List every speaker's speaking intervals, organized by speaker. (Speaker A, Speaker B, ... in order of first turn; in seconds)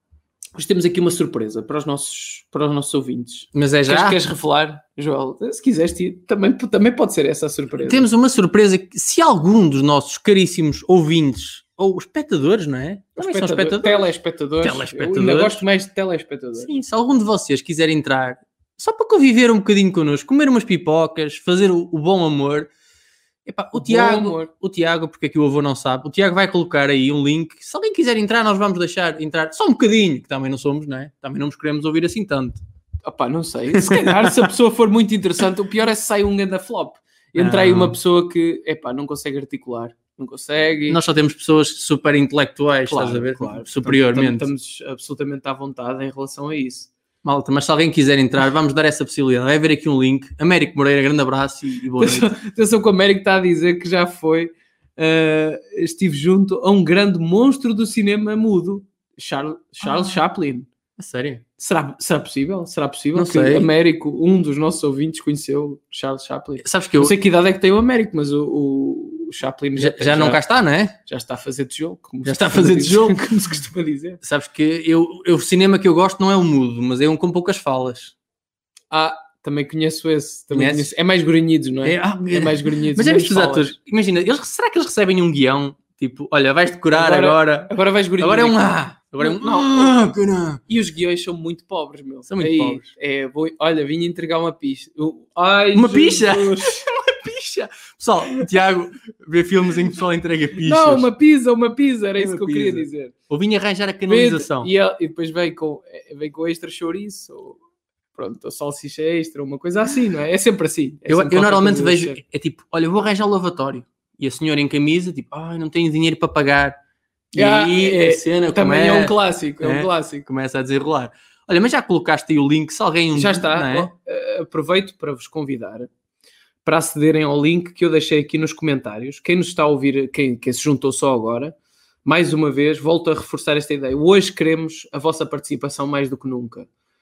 Speaker A: 0.6-8.1, 13.2-16.7, 23.7-24.5, 33.0-41.0, 42.9-46.9, 52.0-60.7, 61.6-70.4, 71.0-74.2, 78.9-83.8, 86.9-90.1, 90.7-96.8, 100.6-103.1, 104.1-107.6, 108.1-112.2, 117.3-120.3, 123.1-125.9, 126.6-136.7
Speaker B: 3.5-4.2, 7.8-15.6, 16.6-22.7, 23.4-32.6, 33.7-34.5, 37.3-38.0, 40.9-44.5, 47.2-52.3, 59.8-60.1, 61.0-61.4, 63.1-63.7, 66.6-67.1, 69.8-71.0, 72.2-73.2, 74.2-78.1, 80.5-80.9, 81.8-90.6, 92.3-92.9, 95.7-101.1, 102.2-104.7, 111.1-116.8, 117.3-123.9